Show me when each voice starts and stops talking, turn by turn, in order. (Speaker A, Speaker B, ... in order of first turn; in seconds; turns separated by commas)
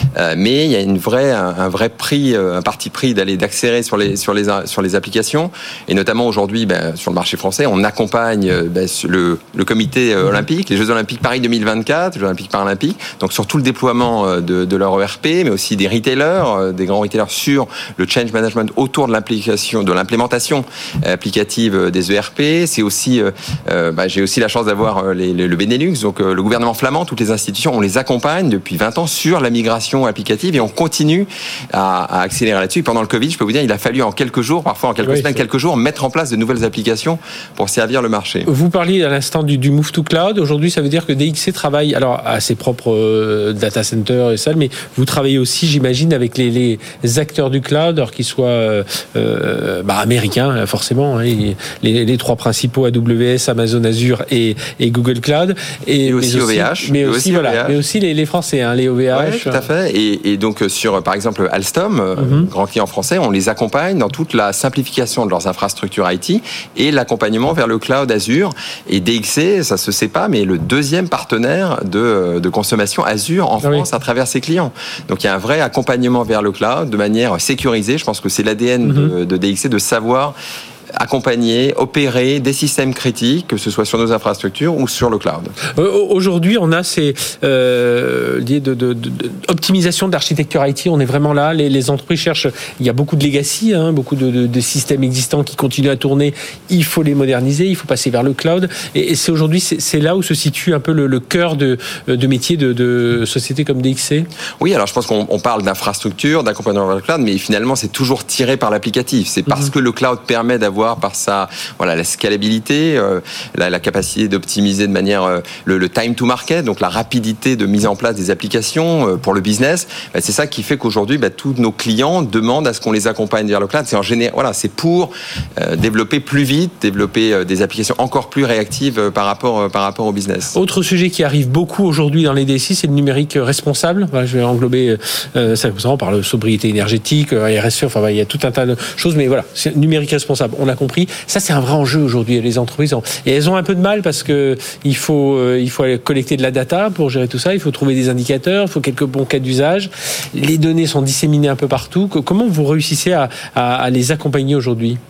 Speaker A: 0.1-38.5, Speaker B: 35.0-35.4, Speaker B: 38.5-59.6, Speaker A: 56.0-57.8, Speaker A: 59.1-80.3, Speaker B: 62.2-62.5, Speaker B: 78.8-79.1, Speaker A: 80.9-85.5, Speaker B: 85.7-104.3, Speaker A: 104.6-130.6, Speaker B: 130.5-155.0